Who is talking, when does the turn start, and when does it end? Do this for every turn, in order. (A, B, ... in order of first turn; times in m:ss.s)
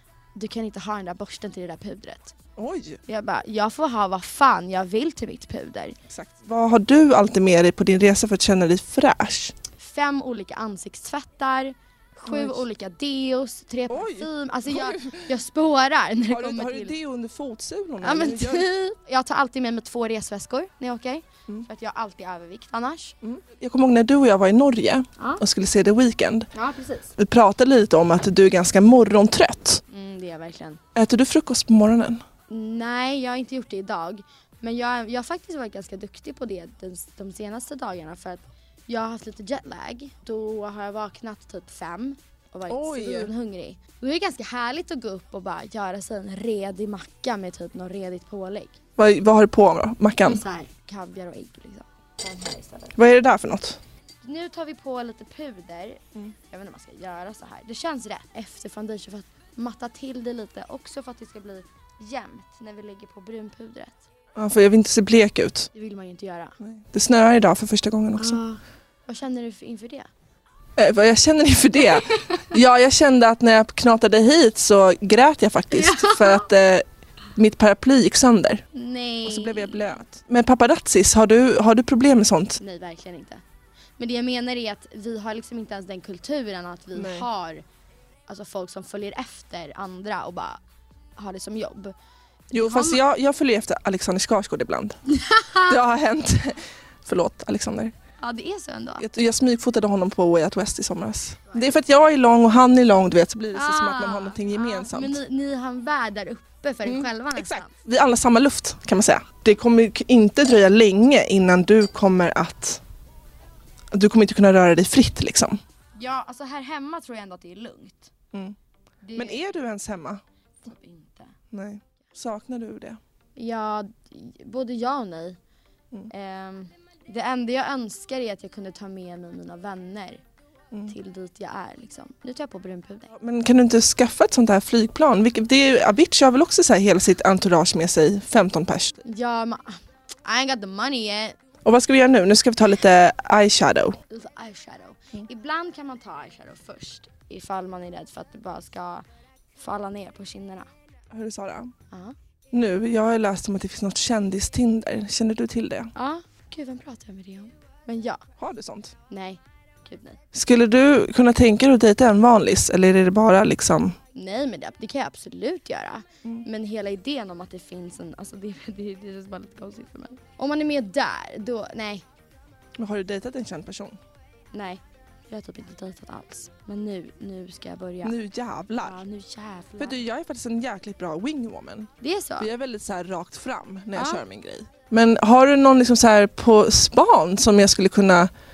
0:00.3-0:02.3 A
0:02.6-0:03.0 B
0:03.1-0:06.0 A
0:06.1-0:09.6 B
0:09.8-0:16.9 A
0:12.3-0:12.6 B
0:13.9-0:15.2 B
0:16.3-0:18.7 B
0:18.0-0:23.2 A
0:23.2-0:26.5 B
0:26.5-0:27.1 A
0:27.2-0:29.8 B
0:29.9-0:30.8 A
0:30.9-0:32.2 B
0:32.5-0:48.8 A
0:42.7-0:43.3 B
0:49.0-0:50.4 B
0:50.2-0:52.9 A
0:52.9-0:53.8 B
0:54.2-1:04.0 A
1:04.4-1:05.7 B
1:05.7-1:06.6 A
1:06.6-1:08.4 B
1:08.2-1:10.1 A
1:10.8-1:18.6 B
1:15.7-1:16.5 A
1:18.7-1:19.8 A
1:19.2-1:22.6 B
1:22.6-1:23.4 A
1:24.0-1:27.6 A
1:26.9-1:27.3 B
1:28.3-1:30.6 A
1:31.2-1:31.9 A
1:32.5-1:33.0 A
1:32.5-1:35.0 B
1:35.2-1:35.7 A
1:35.6-1:37.9 B
1:38.2-1:39.0 A
1:39.0-1:45.2 B
1:43.5-1:47.7 A
1:46.9-1:52.8 B
1:53.9-1:55.6 B
1:56.0-1:58.1 A
1:59.0-1:59.4 A
1:59.2-2:00.2 B
2:00.6-2:01.3 A
2:01.5-2:03.0 B
2:03.4-2:05.4 A
2:06.1-2:10.2 A
2:10.9-2:13.1 A
2:13.1-2:19.0 B
2:19.0-2:21.4 A
2:21.6-2:24.0 B
2:24.1-2:29.0 A
2:29.6-2:30.7 A
2:31.1-2:31.7 B
2:31.9-2:32.2 A
2:32.5-2:35.9 B
2:36.0-2:38.2 A
2:38.4-2:39.0 B
2:39.1-2:40.2 A
2:40.3-2:44.0 B
2:44.1-2:52.0 A
2:52.8-2:54.0 B
2:54.5-2:58.1 A
2:58.0-2:59.0 B
2:58.8-3:00.0 A
2:59.8-3:08.3 B
3:02.0-3:02.5 A
3:04.0-3:04.2 A